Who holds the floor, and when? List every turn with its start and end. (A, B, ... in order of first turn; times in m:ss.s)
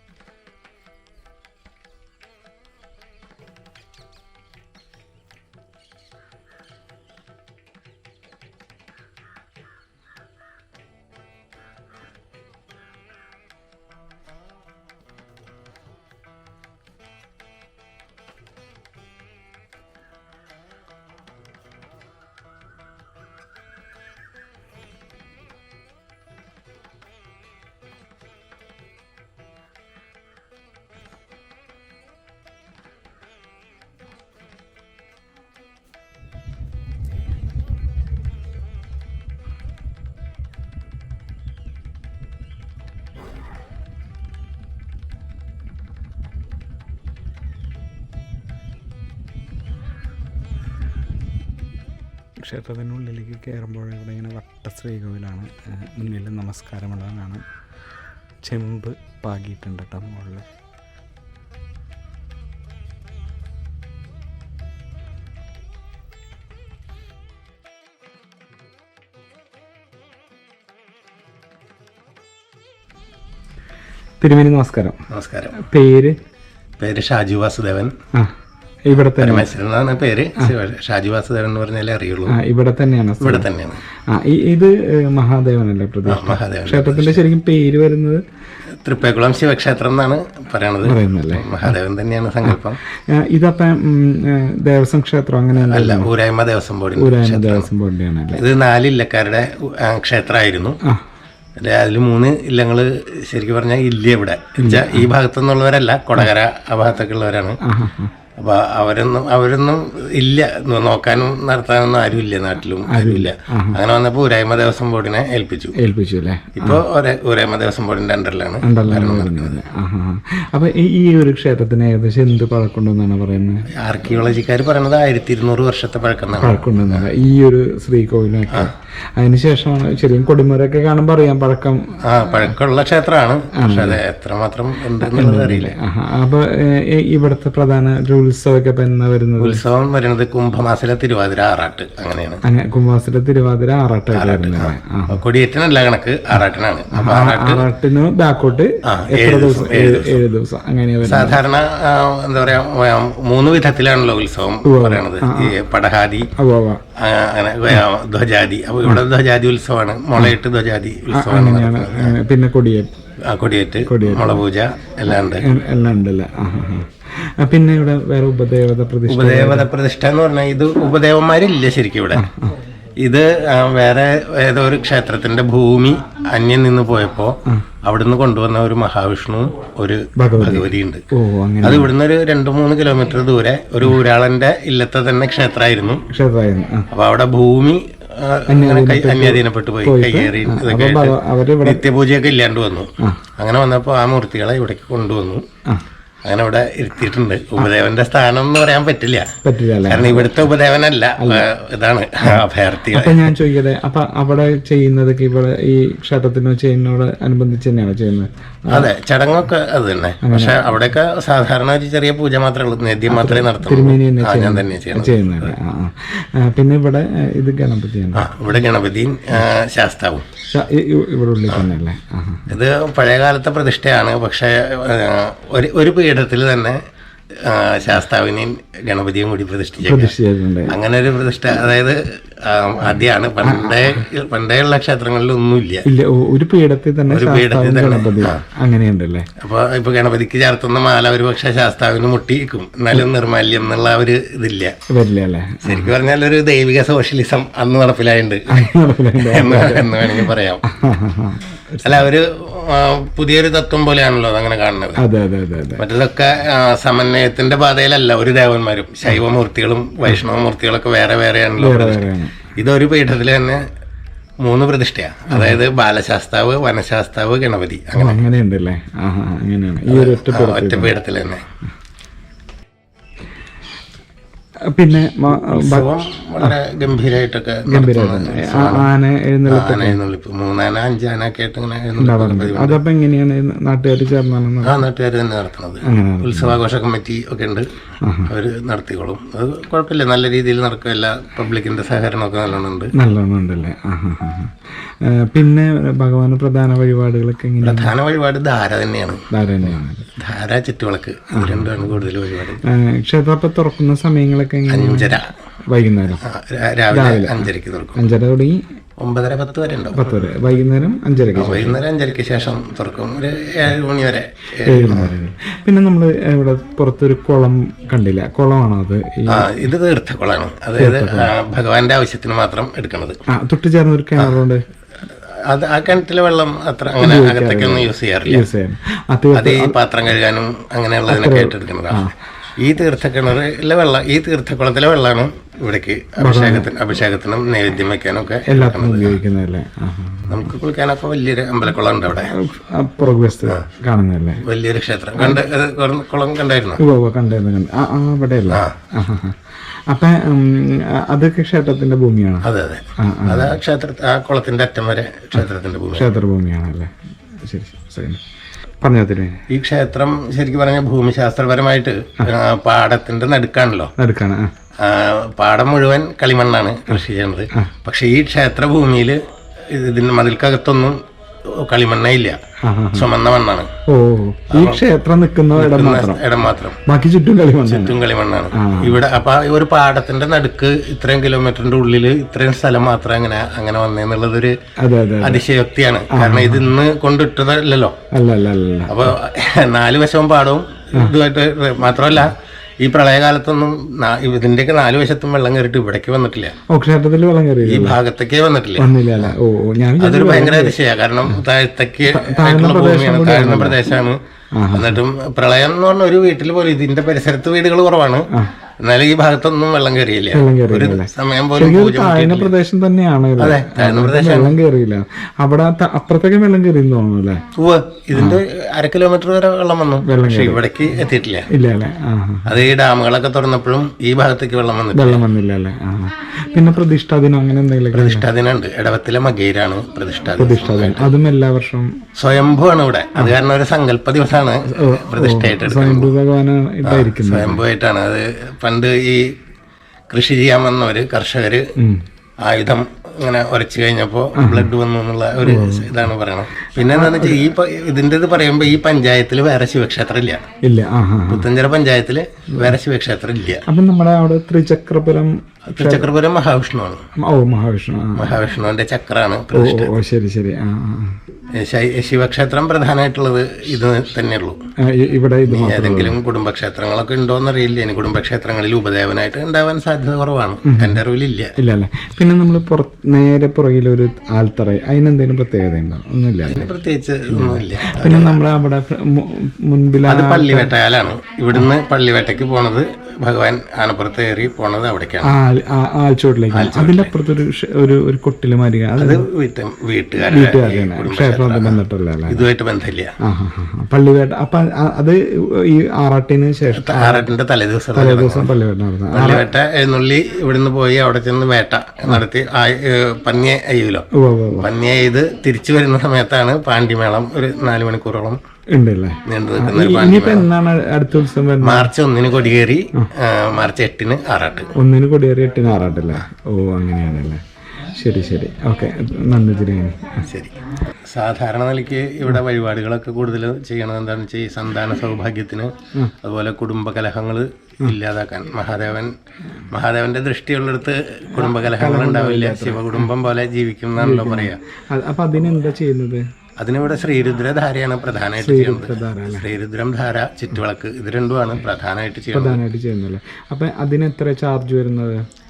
0:52.4-0:57.4 A
0:58.5-1:00.5 A
1:14.2-1:15.0 A
1:15.1-1:15.5 B
1:15.5-1:16.2 A
1:16.8-1:17.9 B
1:18.9-1:19.5 A
1:19.2-1:22.4 B
1:22.3-1:23.5 A
1:23.2-1:23.8 B
1:24.1-1:28.2 A
1:26.0-1:27.3 B
1:28.8-1:32.8 B
1:30.8-1:31.7 A
1:32.5-1:36.1 A
1:35.6-1:37.7 B
1:37.0-1:38.4 A
1:38.3-1:40.8 B
1:41.6-1:47.6 B
1:44.6-1:45.1 A
1:47.6-1:48.1 A
1:48.4-1:55.8 B
1:52.9-1:53.8 A
1:55.8-1:56.8 A
1:56.6-1:59.6 B
1:58.6-2:03.7 A
2:03.7-2:07.1 B
2:06.4-2:12.0 A
2:12.0-2:15.8 B
2:13.5-2:14.0 A
2:15.0-2:19.6 A
2:19.4-2:22.4 B
2:22.4-2:25.2 A
2:24.1-2:27.7 B
2:26.9-2:31.4 A
2:28.8-2:30.2 B
2:31.0-2:36.3 B
2:34.6-2:35.6 A
2:36.4-2:36.8 A
2:36.9-2:42.2 B
2:41.1-2:42.9 A
2:43.2-2:45.5 B
2:43.8-2:44.4 A
2:45.2-2:49.7 A
2:49.1-2:52.3 B
2:52.1-2:52.6 A
2:53.0-3:01.0 B
3:00.2-3:01.9 A
3:01.6-3:06.0 B
3:06.1-3:06.9 A
3:06.9-3:15.4 B
3:08.5-3:11.8 A
3:16.2-3:23.4 B
3:19.4-3:20.5 A
3:21.2-3:21.5 A
3:22.2-3:28.9 A
3:28.7-3:35.5 B
3:30.2-3:30.7 A
3:33.1-3:38.3 A
3:38.1-3:40.3 B
3:40.5-3:42.6 A
3:42.5-3:46.8 B
3:47.3-3:50.1 B
3:49.8-3:50.8 A
3:50.7-3:55.8 B
3:53.4-3:54.0 A
3:55.8-3:59.3 A
3:57.1-3:58.4 B
3:59.4-4:04.8 B
4:04.9-4:05.9 A
4:05.6-4:10.6 B
4:08.5-4:12.1 A
4:11.8-4:15.0 B
4:15.0-4:15.8 A
4:15.8-4:23.6 B
4:21.6-4:22.5 A
4:24.4-4:28.2 B
4:25.3-4:25.6 A
4:28.0-4:30.9 A
4:29.8-4:31.5 B
4:34.7-4:36.6 A
4:35.3-4:38.9 B
4:37.7-4:40.0 A
4:39.5-4:42.8 B
4:42.0-4:44.8 A
4:44.6-4:47.7 B
4:45.8-4:46.6 A
4:48.0-4:48.3 A
4:48.2-4:52.9 B
4:52.9-4:57.9 A
4:57.6-4:59.2 B
4:59.3-5:00.1 A
5:00.2-5:02.6 B
5:01.3-5:01.9 A
5:02.6-5:05.2 A
5:04.7-5:05.3 B
5:05.7-5:06.2 A
5:06.2-5:08.0 B
5:06.9-5:08.6 A
5:09.0-5:10.2 B
5:09.9-5:11.8 A
5:11.3-5:15.1 B
5:14.6-5:19.7 A
5:19.3-5:23.2 B
5:20.8-5:21.3 A
5:23.3-5:24.6 A
5:25.1-5:28.5 B
5:27.0-5:29.8 A
5:29.3-5:39.2 B
5:31.1-5:32.1 A
5:36.2-5:36.7 A
5:38.5-5:40.5 A
5:40.3-5:42.3 B
5:42.2-5:44.4 A
5:44.4-5:46.8 B
5:45.2-5:45.4 A
5:46.8-5:53.6 A
5:48.5-5:48.8 B
5:52.4-5:56.1 B
5:55.9-5:58.2 A
5:58.8-5:59.4 A
5:59.5-6:03.9 B
6:04.0-6:04.5 A
6:04.8-6:12.4 B
6:12.6-6:13.1 A
6:12.9-6:13.7 B
6:13.9-6:16.2 A
6:14.5-6:14.8 B
6:15.5-6:16.8 B
6:16.8-6:18.0 A
6:17.6-6:24.5 B
6:18.5-6:19.0 A
6:24.8-6:25.4 A
6:25.2-6:28.0 B
6:26.1-6:26.7 A
6:28.1-6:29.1 A
6:28.8-6:36.5 B
6:36.7-6:38.0 A
6:37.6-6:39.3 B
6:38.8-6:40.8 A
6:40.0-6:52.6 B
6:42.1-6:43.8 A
6:44.5-6:45.0 A
6:50.3-6:57.4 A
6:53.4-6:54.6 B
6:57.5-7:01.5 B
6:58.1-6:58.4 A
7:00.0-7:00.6 A
7:01.5-7:02.6 A
7:02.4-7:05.2 B
7:04.9-7:08.2 A
7:07.9-7:11.1 B
7:10.3-7:11.9 A
7:12.2-7:16.1 B
7:14.7-7:17.6 A
7:16.8-7:19.3 B
7:20.1-7:21.7 B
7:21.8-7:22.0 A
7:22.4-7:30.4 B
7:24.4-7:24.7 A
7:25.4-7:26.0 A
7:26.6-7:27.5 A
7:30.6-7:31.5 A
7:31.3-7:33.6 B
7:33.6-7:36.1 A
7:35.8-7:37.0 B
7:37.2-7:38.4 A
7:38.2-7:40.0 B
7:39.5-7:41.2 A
7:41.5-7:44.7 B
7:44.8-7:46.2 A
7:45.5-7:51.5 B
7:50.6-7:51.0 A
7:51.6-7:56.7 A
7:56.4-7:58.4 B
7:57.3-8:00.7 A
8:00.0-8:05.4 B
8:05.2-8:09.3 A
8:06.5-8:07.1 B
8:09.0-8:13.1 B
8:10.2-8:12.4 A
8:13.2-8:17.3 A
8:16.7-8:18.5 B
8:17.9-8:19.5 A
8:19.1-8:28.4 B
8:24.1-8:24.7 A
8:28.7-8:31.9 A
8:29.2-8:30.5 B
8:31.6-8:34.7 B
8:34.7-8:40.3 A
8:40.2-8:49.1 B
8:49.7-8:54.6 B
8:51.3-8:53.1 A
8:54.0-8:56.3 A
8:56.6-9:02.6 B
8:58.4-8:59.5 A
9:02.3-9:05.2 A